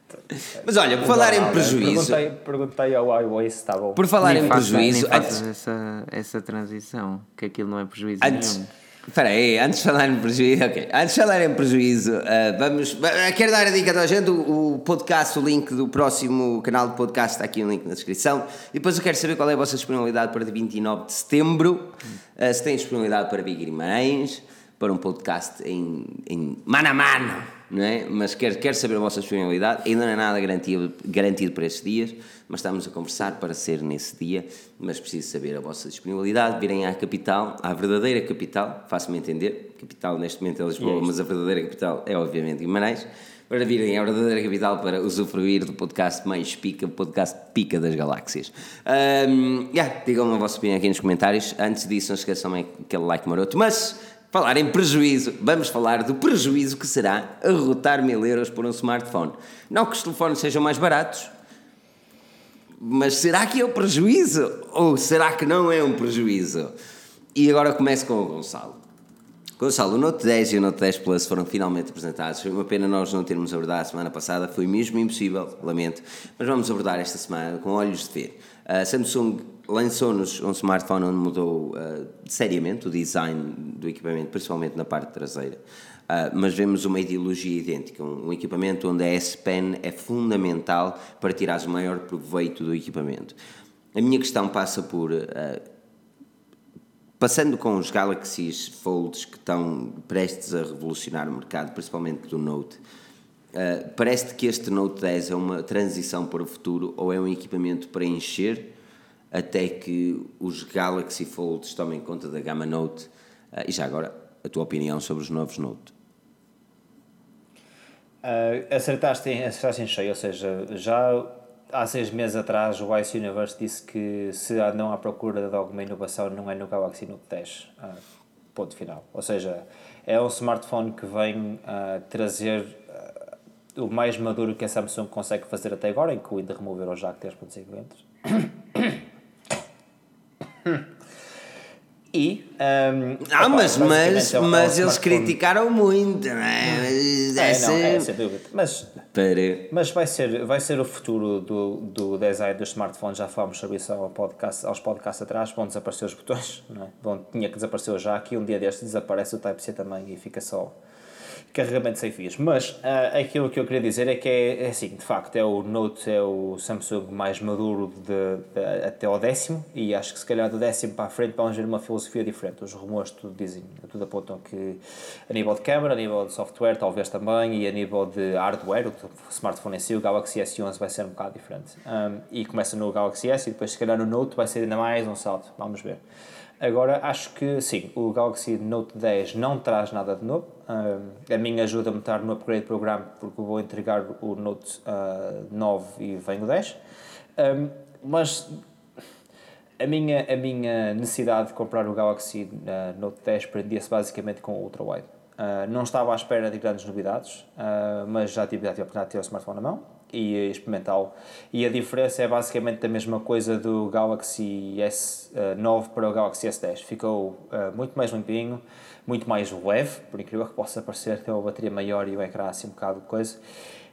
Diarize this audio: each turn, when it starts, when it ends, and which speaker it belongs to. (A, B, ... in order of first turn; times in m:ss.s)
0:00.3-0:02.2 A
0:01.0-0:05.4 B
0:04.0-0:05.4 A
0:04.2-0:08.7 C
0:08.2-1:01.3 A
0:40.8-0:41.1 B
1:02.8-1:06.7 A
1:07.4-1:08.8 A
1:09.6-1:33.4 A
1:34.0-1:35.6 A
1:37.2-1:42.8 A
1:43.5-1:48.7 A
1:49.3-1:55.9 A
1:58.2-2:08.0 B
2:08.6-2:13.2 B
2:13.8-2:19.0 B
2:22.1-2:25.4 B
2:23.2-2:28.1 A
2:27.3-2:29.0 B
2:29.1-2:29.7 A
2:29.7-2:40.7 B
2:41.5-3:06.0 B
3:06.6-3:16.8 B
3:17.4-3:18.6 B
3:19.8-3:43.4 B